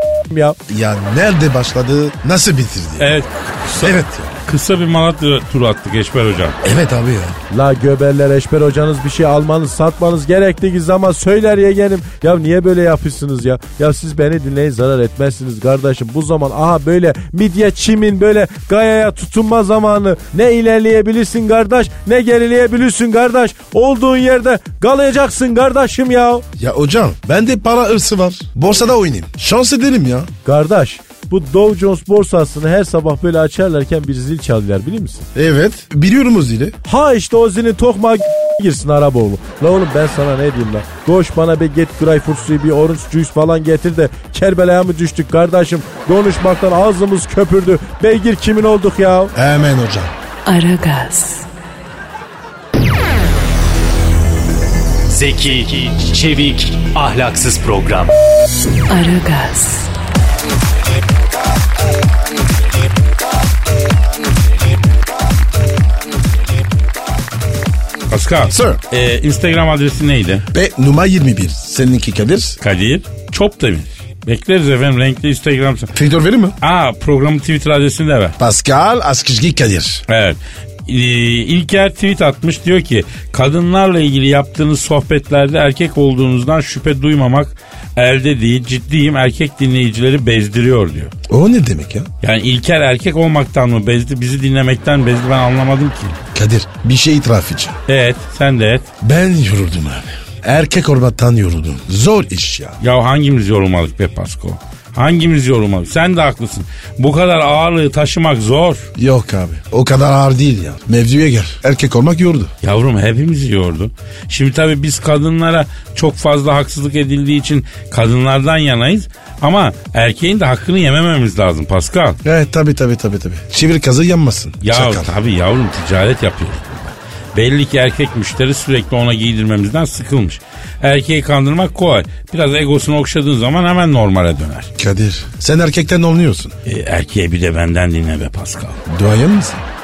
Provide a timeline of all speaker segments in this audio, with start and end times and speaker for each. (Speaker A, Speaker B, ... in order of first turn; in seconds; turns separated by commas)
Speaker A: 0.3-0.6, Speaker B: 0.7-3.1, Speaker C: 3.0-6.6, Speaker B: 3.8-4.4, Speaker B: 6.6-7.3, Speaker A: 7.5-26.4, Speaker B: 26.6-30.3, Speaker A: 30.4-35.3, Speaker B: 35.3-36.8, Speaker A: 36.9-49.3, Speaker B: 49.3-50.1, Speaker D: 50.5-51.5, Speaker E: 55.1-58.1, Speaker D: 58.9-59.9, Speaker C: 68.1-70.5, Speaker B: 68.5-68.8, Speaker B: 70.5-72.6, Speaker C: 72.6-75.9, Speaker B: 75.9-76.6, Speaker C: 76.6-78.3, Speaker B: 78.4-80.0, Speaker C: 80.1-91.1, Speaker B: 91.3-92.1, Speaker C: 92.2-96.2, Speaker B: 96.3-97.8, Speaker C: 97.9-98.9, Speaker B: 99.0-102.8, Speaker C: 102.8-108.8, Speaker B: 109.0-112.5, Speaker C: 112.6-122.2, Speaker B: 122.2-125.1, Speaker C: 124.6-134.7, Speaker B: 134.8-136.5, Speaker C: 136.7-138.8, Speaker B: 138.9-139.6